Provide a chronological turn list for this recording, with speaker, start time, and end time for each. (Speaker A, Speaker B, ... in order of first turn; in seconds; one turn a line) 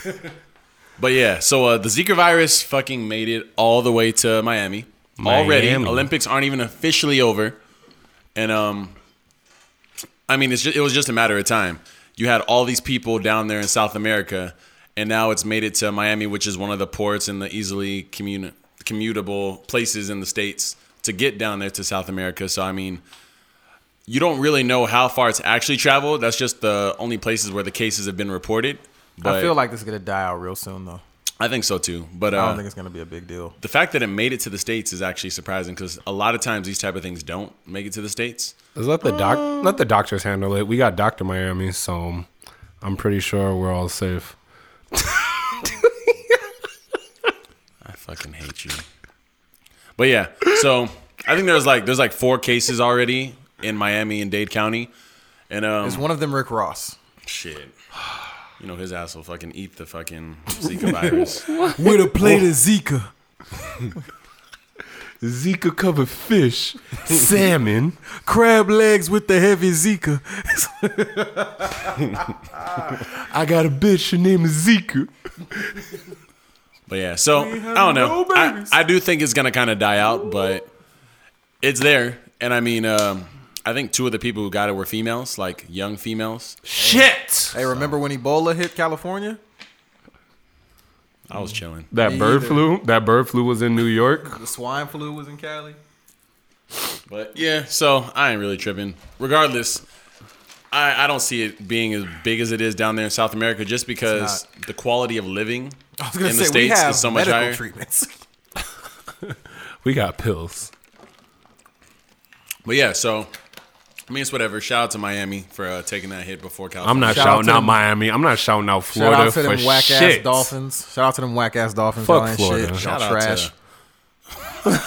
Speaker A: 1.0-7.6
Speaker B: 5.2-6.1
Speaker A: 8.3-8.9
Speaker A: 10.3-23.0
Speaker A: 24.1-29.5
Speaker C: 29.2-31.0
Speaker A: 31.4-32.6
Speaker C: 32.3-33.5
Speaker A: 33.6-38.5
Speaker B: 38.8-42.3
Speaker B: 42.8-44.4
Speaker B: 44.9-46.3
Speaker A: 47.8-48.9
Speaker A: 50.0-54.9
Speaker A: 55.5-56.0
Speaker C: 55.8-57.0
Speaker A: 57.2-57.7
Speaker A: 58.6-61.5
Speaker B: 61.5-62.0
Speaker C: 61.6-63.1
Speaker B: 65.2-68.0
Speaker C: 68.2-73.0
Speaker B: 73.0-75.9
Speaker A: 76.9-80.7
Speaker C: 77.3-78.8
Speaker A: 81.6-86.6
Speaker B: 86.7-87.5
Speaker C: 86.8-89.4
Speaker A: 91.3-91.9
Speaker B: 91.9-94.4
Speaker C: 92.0-92.7
Speaker C: 94.2-95.8
Speaker A: 97.1-99.8
Speaker A: 100.7-107.6
Speaker C: 104.1-104.4
Speaker C: 106.0-108.1
Speaker B: 109.2-110.7
Speaker A: 112.7-113.3
Speaker A: 114.1-117.5
Speaker B: 116.8-120.5
Speaker C: 117.1-117.8
Speaker C: 118.9-123.5
Speaker B: 122.0-122.9
Speaker A: 122.7-123.5